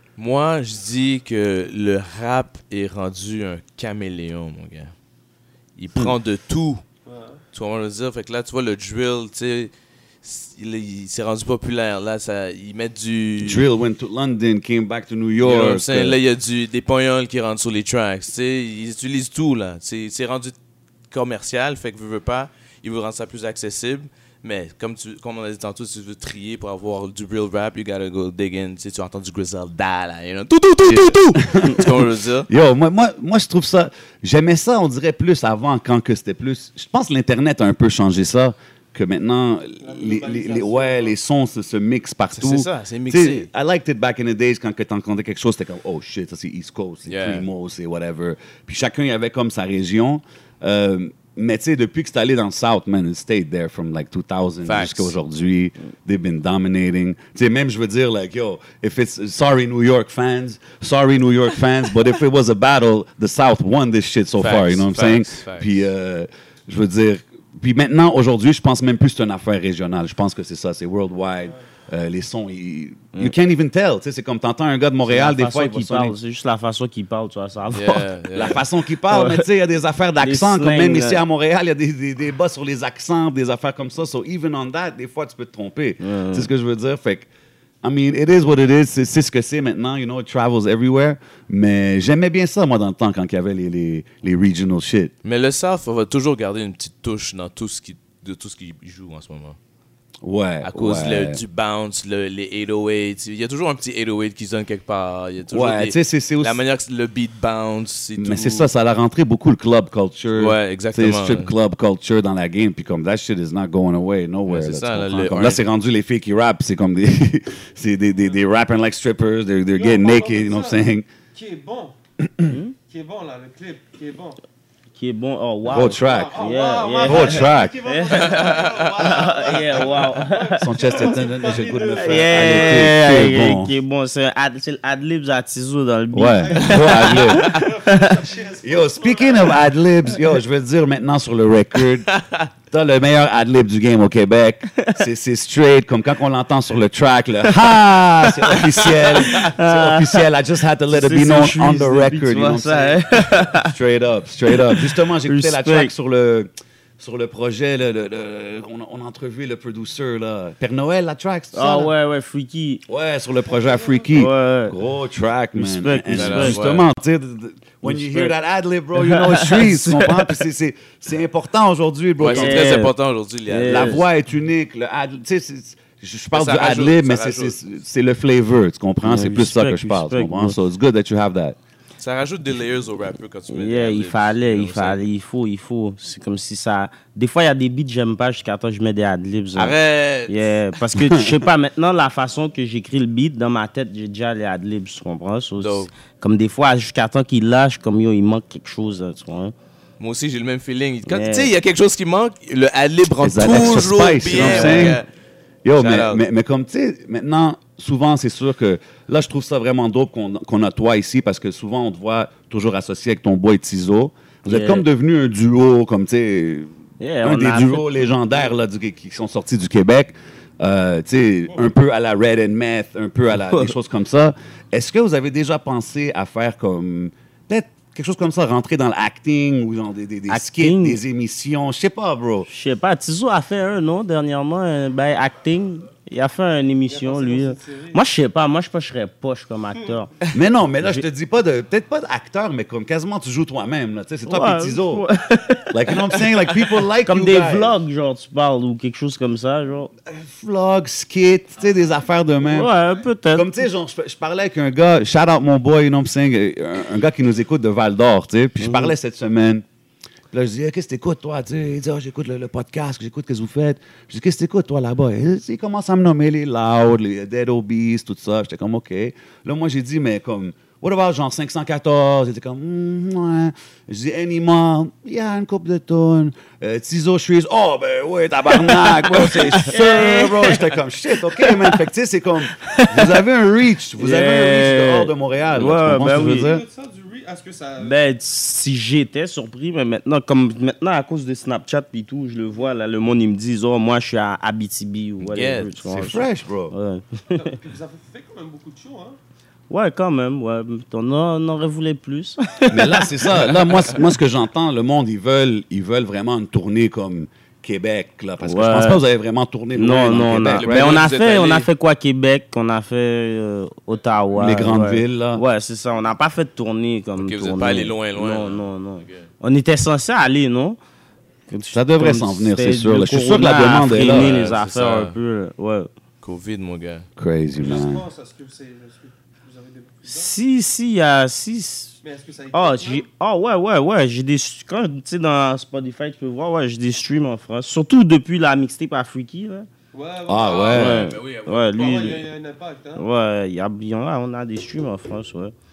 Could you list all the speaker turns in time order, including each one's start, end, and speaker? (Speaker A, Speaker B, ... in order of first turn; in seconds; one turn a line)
Speaker A: 0.2-4.9
Speaker A: 5.8-6.8
Speaker B: 7.1-7.4
Speaker A: 7.5-9.7
Speaker A: 10.2-13.6
Speaker C: 13.4-16.2
Speaker A: 15.4-20.6
Speaker A: 21.1-32.5
Speaker C: 30.9-76.2
Speaker B: 39.8-41.1
Speaker A: 42.4-43.5
Speaker A: 47.1-47.5
Speaker A: 54.6-55.1
Speaker A: 64.4-65.9
Speaker D: 75.0-78.1
Speaker A: 77.7-78.6
Speaker C: 78.3-87.3
Speaker D: 79.1-79.5
Speaker D: 80.2-81.2
Speaker D: 86.0-86.5
Speaker C: 87.8-95.1
Speaker A: 95.2-99.6
Speaker C: 100.2-101.4
Speaker A: 100.6-108.7
Speaker C: 105.5-106.6
Speaker C: 108.2-121.1
Speaker A: 110.3-111.5
Speaker A: 114.5-115.6
Speaker B: 119.7-122.0
Speaker D: 122.5-122.8
Speaker B: 122.8-124.4
Speaker D: 125.0-131.2
Speaker C: 125.7-127.8
Speaker B: 125.8-133.0
Speaker A: 128.4-128.7
Speaker C: 130.6-133.7
Speaker D: 131.8-138.2
Speaker C: 136.1-137.6
Speaker B: 136.4-139.7
Speaker C: 138.6-142.2
Speaker C: 142.7-161.9
Speaker D: 148.2-150.3
Speaker D: 150.9-153.7
Speaker D: 154.5-155.9
Speaker D: 161.5-162.8
Speaker C: 162.9-172.9
Speaker B: 163.5-164.2
Speaker D: 164.1-164.8
Speaker D: 165.6-166.6
Speaker A: 166.1-166.8
Speaker D: 167.8-168.3
Speaker D: 169.0-170.4
Speaker A: 172.2-174.0
Speaker D: 172.2-172.9
Speaker D: 173.5-174.0
Speaker C: 173.6-181.6
Speaker A: 176.3-177.6
Speaker D: 179.0-180.6
Speaker A: 182.0-185.0
Speaker D: 183.5-199.6
Speaker A: 189.6-190.6
Speaker C: 190.9-191.5
Speaker A: 195.6-195.9
Speaker A: 200.0-205.1
Speaker D: 201.1-201.5
Speaker C: 203.2-205.0
Speaker D: 204.3-205.0
Speaker C: 205.6-216.7
Speaker A: 205.8-206.2
Speaker D: 214.4-214.8
Speaker D: 217.0-217.9
Speaker C: 217.2-232.5
Speaker D: 223.4-223.7
Speaker D: 230.3-231.0
Speaker D: 232.5-240.3
Speaker B: 236.9-238.0
Speaker C: 240.3-245.0
Speaker D: 244.2-246.5
Speaker C: 245.7-247.8
Speaker D: 247.0-249.9
Speaker C: 250.1-252.7
Speaker D: 252.5-253.5
Speaker C: 253.3-259.6
Speaker D: 258.6-258.9
Speaker C: 260.3-286.7
Speaker D: 278.5-281.8
Speaker D: 282.5-283.2
Speaker D: 284.0-286.5
Speaker B: 286.0-288.0
Speaker D: 287.8-297.5
Speaker A: 295.2-295.8
Speaker C: 295.9-296.7
Speaker B: 297.3-299.2
Speaker D: 299.7-303.4
Speaker C: 302.7-311.0
Speaker D: 308.4-309.0
Speaker D: 309.7-320.8
Speaker A: 310.5-311.7
Speaker C: 314.3-315.4
Speaker A: 317.2-319.3
Speaker D: 321.5-325.9
Speaker C: 321.7-324.5
Speaker A: 324.0-325.2
Speaker A: 326.2-327.1
Speaker C: 327.2-328.1
Speaker B: 327.6-330.3
Speaker D: 330.1-332.0
Speaker B: 332.0-333.1
Speaker D: 332.5-339.7
Speaker B: 339.9-341.2
Speaker C: 340.3-341.2
Speaker A: 340.5-342.0
Speaker D: 340.7-342.3
Speaker B: 341.7-343.1
Speaker D: 343.0-345.5